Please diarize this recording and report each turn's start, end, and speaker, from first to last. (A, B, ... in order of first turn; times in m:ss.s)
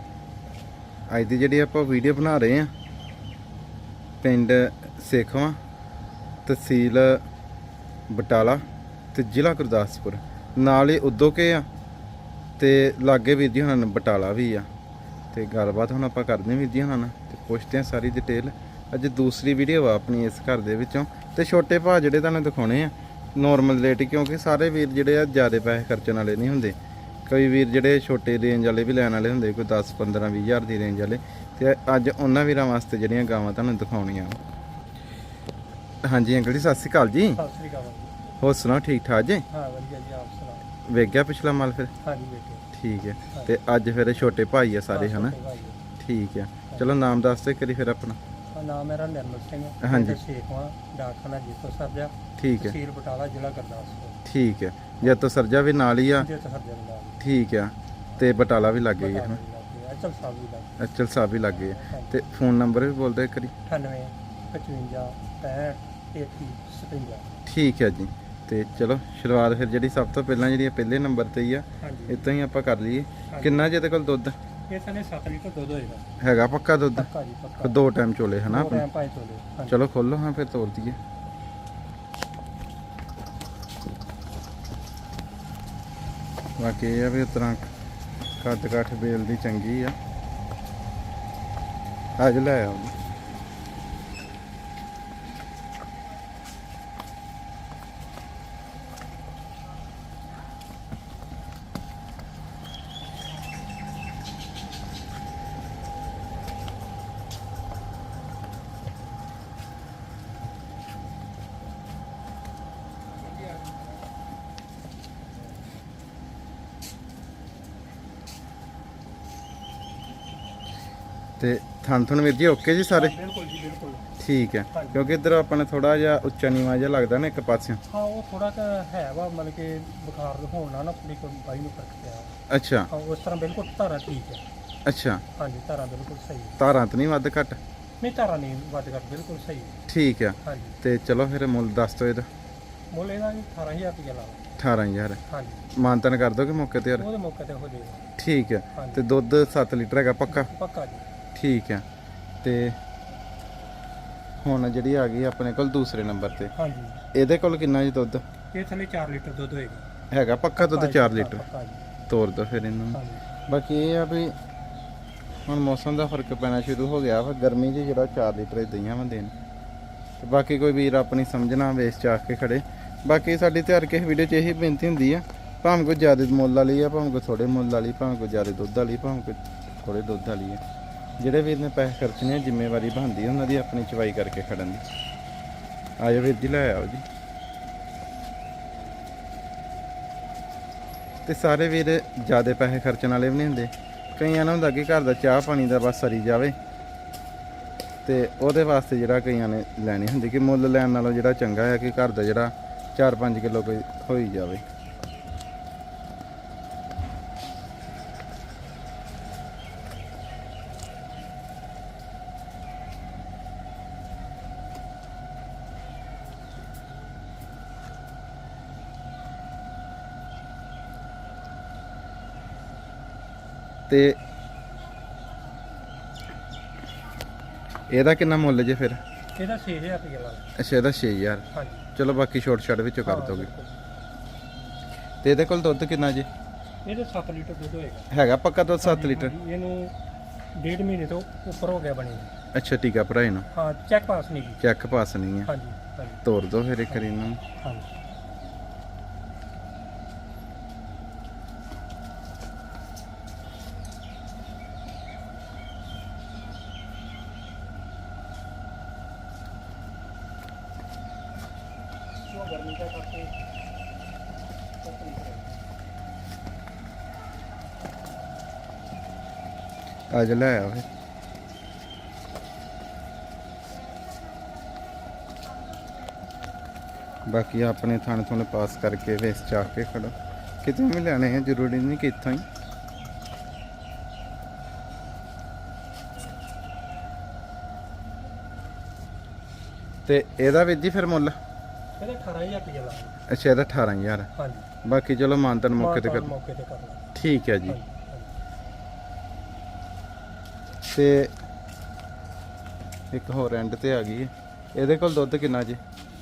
0:01.1-0:02.7 A
0:04.2-0:05.6 A
0:06.5-0:07.2 A
0:08.1-0:11.7 A
0:12.6-0:14.7 A
0:15.3-0:34.4 A
0:36.0-0:37.4 A
0:37.4-0:38.2 B
0:38.4-0:39.4 A
0:39.5-0:40.7 B
0:40.8-0:41.9 A
0:42.0-0:42.7 B
0:42.7-0:45.4 A
0:44.9-0:45.8 B
0:46.0-0:48.2 A
0:48.5-0:54.2 B
0:49.8-0:50.2 A
0:52.4-0:52.8 A
0:54.2-0:56.3 A
0:56.1-0:57.2 B
0:57.2-0:59.4 A
0:59.0-1:00.8 B
1:00.8-1:03.5 A
1:01.7-1:02.2 B
1:03.7-1:07.4 B
1:07.4-1:14.4 A
1:11.8-1:12.2 B
1:13.3-1:13.7 B
1:14.7-1:16.2 B
1:16.2-1:17.1 A
1:17.0-1:17.8 B
1:17.6-1:18.8 A
1:18.5-1:19.8 B
1:19.7-1:21.0 A
1:26.6-1:27.7 A
1:28.4-1:30.0 A
1:32.2-1:32.9 A
2:01.4-2:03.1 A
2:02.9-2:04.1 B
2:04.2-2:07.8 A
2:04.7-2:05.0 B
2:07.9-2:12.4 B
2:12.5-2:12.9 A
2:12.9-2:14.4 B
2:14.9-2:15.2 A
2:15.4-2:16.6 B
2:16.6-2:17.6 A
2:18.0-2:19.8 B
2:19.9-2:22.3 A
2:20.4-2:20.8 B
2:22.9-2:24.5 B
2:24.6-2:25.2 A
2:25.3-2:25.7 B
2:25.7-2:27.1 A
2:27.0-2:28.1 B
2:28.2-2:30.5 A
2:28.8-2:29.0 B
2:30.3-2:31.1 B
2:31.3-2:31.8 A
2:32.4-2:32.8 A
2:34.4-2:36.5 A
2:36.5-2:37.0 B
2:37.1-2:38.2 A
2:38.5-2:39.9 B
2:40.1-2:41.4 A
2:40.6-2:41.8 B
2:42.1-2:44.3 A
2:42.9-2:43.2 B
2:45.5-2:49.3 A
2:50.2-3:00.6 A
3:01.2-3:04.8 A
3:06.0-3:07.0 A
3:11.3-3:16.6 A
3:18.0-3:24.6 A
3:43.9-3:44.2 A
3:47.9-3:49.0 A
3:49.4-3:50.5 B
3:50.6-3:53.5 A
3:51.5-3:51.9 B
3:53.0-3:53.8 B
3:55.2-3:56.3 A
3:56.8-3:58.1 B
3:58.1-3:59.3 A
3:58.8-3:59.9 B
4:00.6-4:02.3 B
4:02.5-4:03.5 A
4:03.5-4:04.6 B
4:04.6-4:05.5 A
4:05.5-4:06.2 B
4:06.2-4:07.4 A
4:07.6-4:07.9 B
4:22.3-4:23.3 B
4:24.8-4:25.6 B
4:30.1-4:30.8 A
4:37.2-4:42.4 A
4:50.1-4:51.4 A
4:52.0-4:53.2 B
4:53.3-4:54.3 A
4:54.4-4:54.7 B
4:54.8-4:56.3 A
4:55.8-4:58.3 B
4:57.1-4:57.8 A
5:00.8-5:01.3 A
5:03.1-5:05.8 A